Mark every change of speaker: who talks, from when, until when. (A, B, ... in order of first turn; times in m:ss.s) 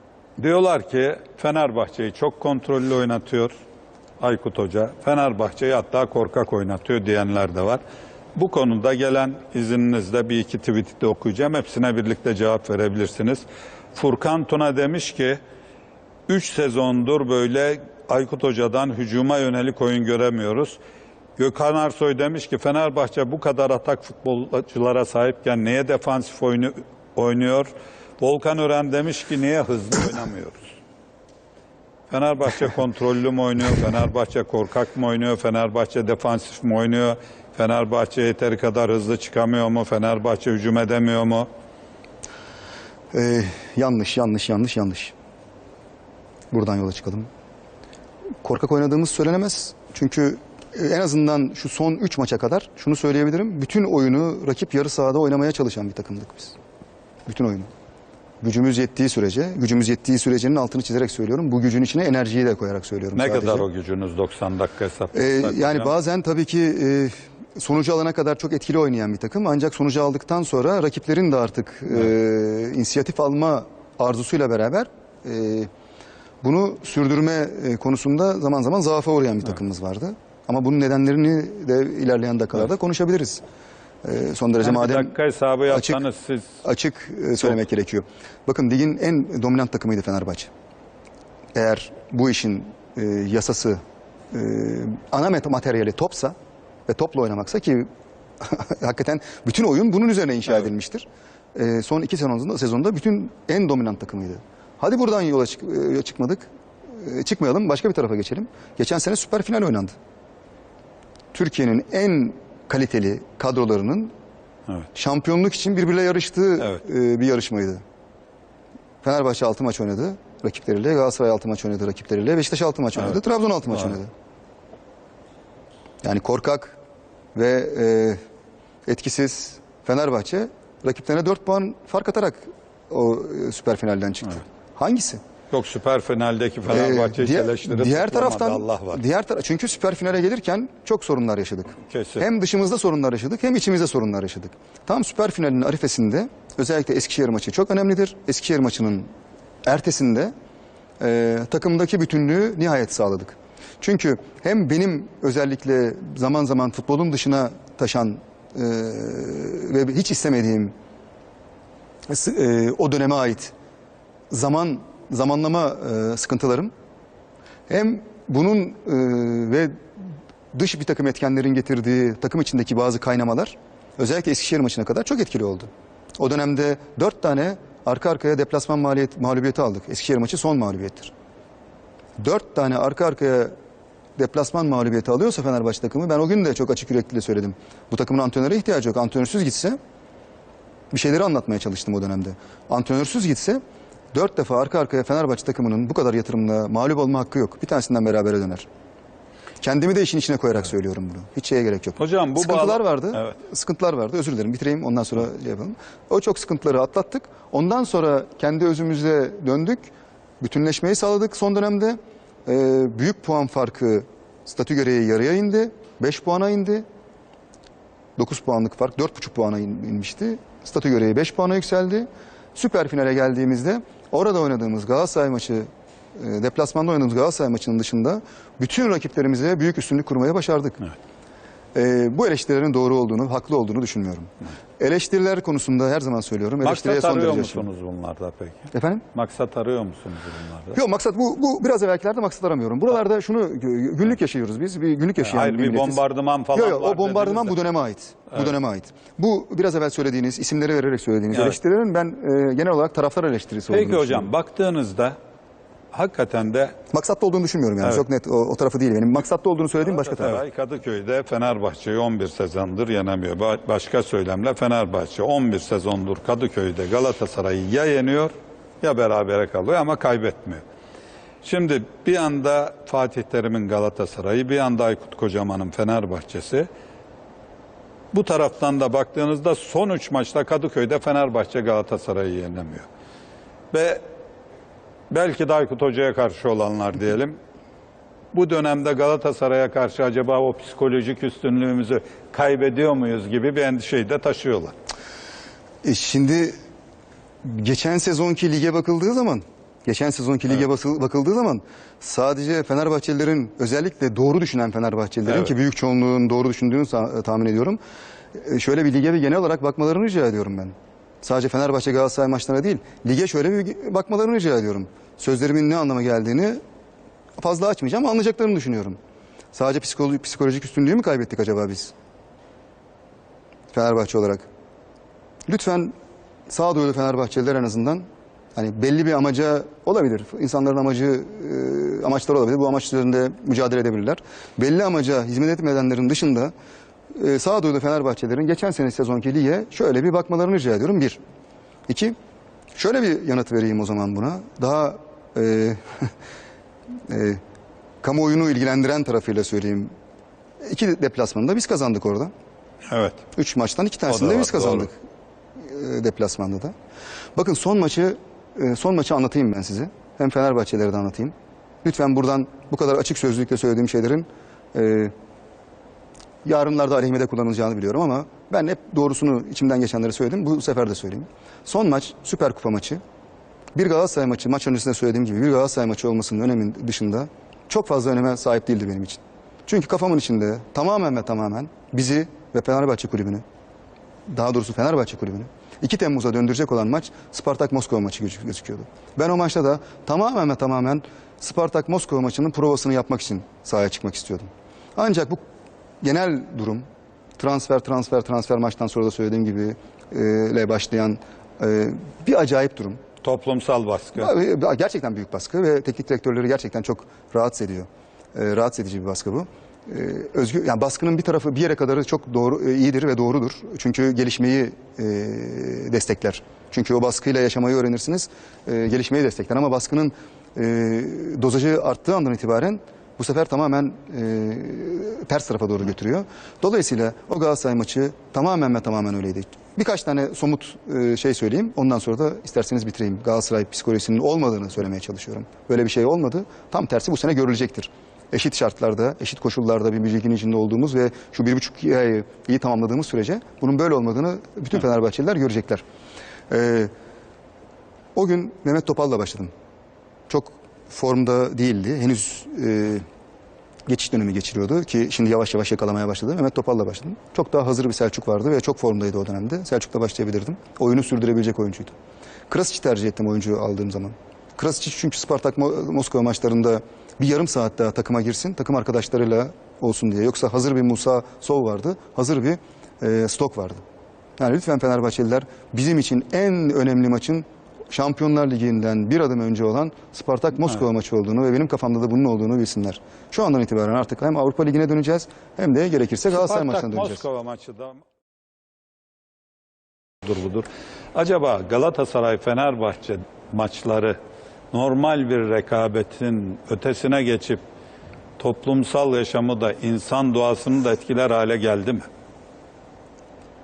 0:00.4-0:03.5 A
0:04.2-0:07.8 A
0:08.3-0:15.4 A
0:16.3-0:20.8 A
0:21.4-0:30.7 A
0:32.1-0:41.5 A
0:43.1-0:45.1 B
0:46.5-0:47.3 B
0:48.4-0:56.6 B
0:57.2-0:57.7 B
0:58.4-1:03.6 B
1:03.1-1:05.9 A
1:05.1-1:15.7 B
1:16.4-1:23.4 B
1:24.0-1:25.1 B
1:24.6-1:26.5 A
1:25.7-1:26.0 B
1:26.6-1:30.5 B
1:31.5-1:33.8 B
1:34.3-1:36.3 B
1:36.9-1:37.9 B
1:38.4-1:49.9 B
1:51.3-1:54.1 B
1:54.9-1:57.8 B
1:59.0-2:04.1 B
2:06.0-2:06.8 B
2:07.3-2:08.2 B
2:08.8-2:15.2 B
2:15.5-2:19.0 A
2:16.6-2:29.1 B
2:21.8-2:22.2 A
2:29.6-2:30.3 B
2:31.0-2:40.7 B
2:42.1-2:43.5 B
2:44.3-2:46.7 B
2:47.7-2:49.7 B
2:50.5-3:01.1 B
3:02.2-3:03.5 B
3:04.2-3:09.8 B
3:10.9-3:13.6 B
3:14.1-3:18.7 B
3:19.6-3:29.9 B
3:22.0-3:23.3 A
3:30.4-3:36.8 B
3:38.2-3:50.9 B
3:51.7-3:57.6 B
3:56.6-4:00.8 A
3:58.7-3:59.0 B
4:00.7-4:06.0 B
4:05.2-4:07.6 A
4:06.5-4:14.3 B
4:11.3-4:11.6 A
4:13.7-4:15.2 A
4:15.9-4:16.8 A
4:16.9-4:20.4 B
4:19.8-4:30.6 A
4:31.4-4:36.7 A
4:38.1-4:42.9 A
4:43.7-4:44.0 A
4:45.1-4:47.4 A
4:48.3-4:54.7 A
4:55.8-4:56.5 B
4:57.4-5:07.8 B
5:08.3-5:16.6 B
5:17.4-5:19.0 B
5:19.5-5:21.9 B
5:23.7-5:24.4 B
5:25.5-5:25.9 B
5:26.5-5:28.0 B
5:28.5-5:36.5 B
5:37.1-5:41.2 B
5:41.9-5:42.2 B
5:42.7-5:46.1 B
5:47.1-5:47.4 B
5:48.0-5:49.9 B
5:50.6-5:52.3 B
5:52.9-5:53.2 A
5:53.3-5:54.9 B
5:54.1-5:54.9 A
5:55.6-5:56.7 B
5:57.3-6:01.3 B
6:01.8-6:05.1 B
6:06.4-6:13.0 B
6:13.7-6:23.4 B
6:24.3-6:35.4 B
6:36.0-6:36.8 B
6:37.4-6:43.0 B
6:43.2-6:44.3 A
6:44.1-7:25.8 B
7:26.5-7:26.9 B
7:28.1-7:29.5 B
7:30.3-7:33.0 B
7:33.9-7:41.9 B
7:42.5-7:53.8 B
7:54.4-8:07.2 B
8:06.3-8:08.0 A
8:10.2-8:14.2 A
8:14.7-8:17.6 A
8:18.4-8:22.0 A